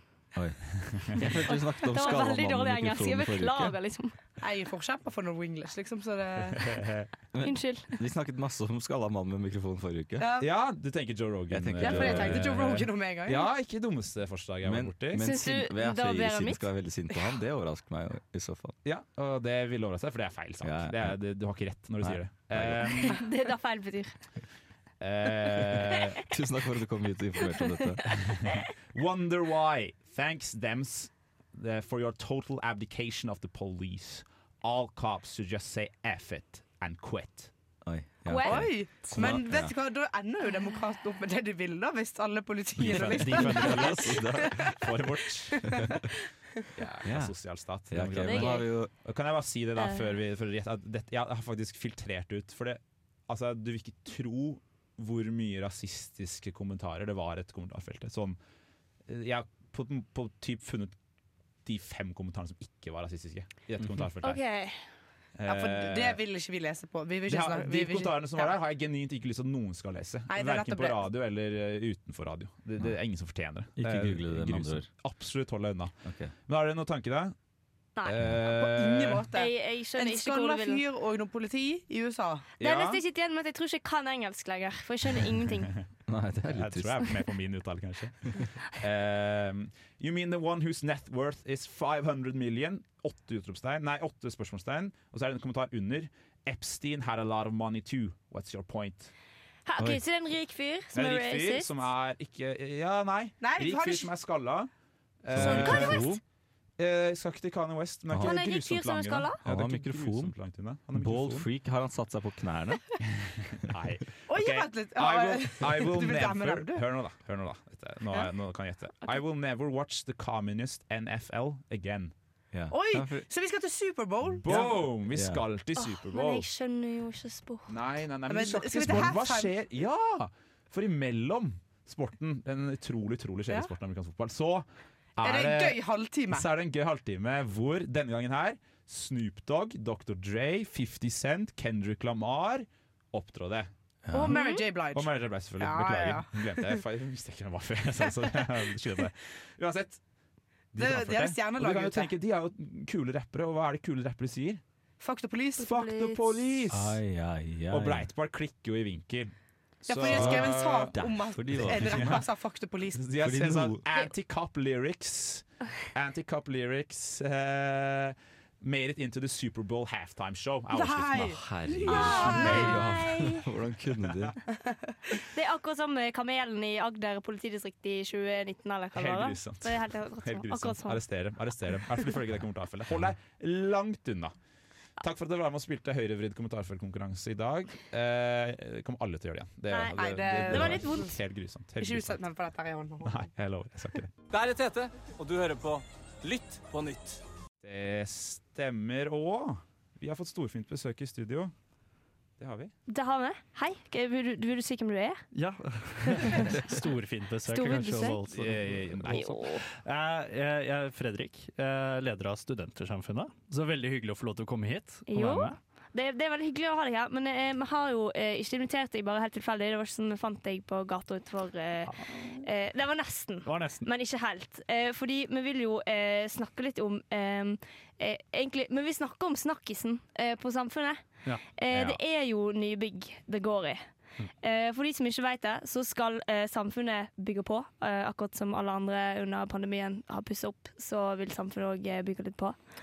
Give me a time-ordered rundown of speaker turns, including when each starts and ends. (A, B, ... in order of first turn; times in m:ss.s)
0:00.3-0:03.8 A
0:00.8-0:01.3 B
0:01.2-0:04.2 C
0:04.4-0:06.9 D
0:06.6-0:07.1 B
0:07.3-0:10.3 A
0:07.4-0:08.0 C
0:10.2-0:10.5 D
0:10.4-0:15.2 B
0:11.5-0:12.6 A
0:11.8-0:13.5 D
0:14.6-0:18.7 A
0:15.2-0:16.7 C
0:18.8-0:23.2 B
0:20.6-0:21.2 A
0:22.0-0:23.1 A
0:22.9-0:24.1 C
0:25.0-0:26.2 B
0:25.8-0:28.3 A
0:27.6-0:28.6 C
0:28.2-0:37.5 B
0:37.8-0:39.7 A
0:38.3-0:38.6 C
0:38.4-0:44.9 D
0:42.8-0:46.0 B
0:42.8-0:44.7 A
0:45.5-0:46.0 D
0:45.7-0:46.0 A
0:46.8-0:58.4 B
0:47.0-0:47.3 A
0:47.9-0:48.9 A
0:48.2-0:48.7 C
0:49.8-0:50.1 C
0:59.1-1:00.9 B
1:01.6-1:04.4 B
1:04.2-1:04.8 C
1:05.4-1:06.2 B
1:05.4-1:08.5 D
1:07.3-1:15.9 B
1:10.3-1:11.0 D
1:13.8-1:14.9 A
1:16.0-1:16.3 A
1:16.5-1:17.3 B
1:18.0-1:19.3 B
1:18.5-1:22.5 D
1:19.3-1:20.8 C
1:22.6-1:23.0 B
1:22.6-1:25.7 C
1:26.1-1:27.1 A
1:26.4-1:39.1 B
1:39.6-1:41.8 C
1:40.9-1:44.7 B
1:43.4-1:44.1 D
1:45.2-1:46.1 B
1:45.3-1:46.2 A
1:45.4-1:46.2 C
1:46.8-1:51.5 B
1:48.1-1:48.4 A
1:48.2-1:49.4 C
1:49.4-1:50.3 A
1:50.9-1:52.8 A
1:53.1-2:02.1 B
1:54.3-1:56.8 D
2:02.5-2:03.2 A
2:02.7-2:04.8 D
2:04.3-2:06.4 B
2:05.1-2:05.4 A
2:05.8-2:07.8 C
2:07.7-2:14.6 B
2:08.3-2:09.5 D
2:15.2-2:23.7 B
2:15.2-2:16.5 D
2:24.0-2:24.3 A
2:24.1-2:26.8 D
2:24.3-2:24.6 C
2:24.9-2:30.0 B
2:30.7-2:34.6 B
2:30.8-2:32.1 D
2:35.0-2:35.7 D
2:35.6-2:36.4 C
2:35.6-2:37.0 B
2:36.7-2:38.1 A
2:37.7-2:40.9 B
2:39.9-2:43.3 D
2:40.0-2:42.2 A
2:41.7-2:42.2 B
2:42.9-2:51.5 B
2:43.2-2:43.8 A
2:50.7-2:52.8 D
2:51.3-2:54.4 A
2:51.9-2:53.5 C
2:55.2-3:01.0 C
2:58.9-3:04.3 B
3:05.0-3:12.2 B
3:09.7-3:10.0 C
3:10.0-3:11.2 D
3:10.5-3:11.1 C
3:11.8-3:13.2 D
3:13.0-3:14.1 B
3:14.3-3:17.2 E
3:17.6-3:21.5 B
3:22.4-3:22.7 B
3:22.9-3:25.2 C
3:25.3-3:35.6 F
3:27.4-3:28.2 C
3:28.1-3:29.3 B
3:29.1-3:29.6 C
3:35.1-3:51.0 C
3:41.8-3:42.3 F
3:43.4-3:43.9 F
3:51.6-3:53.8 C
3:51.7-3:52.0 B
3:54.4-4:02.6 C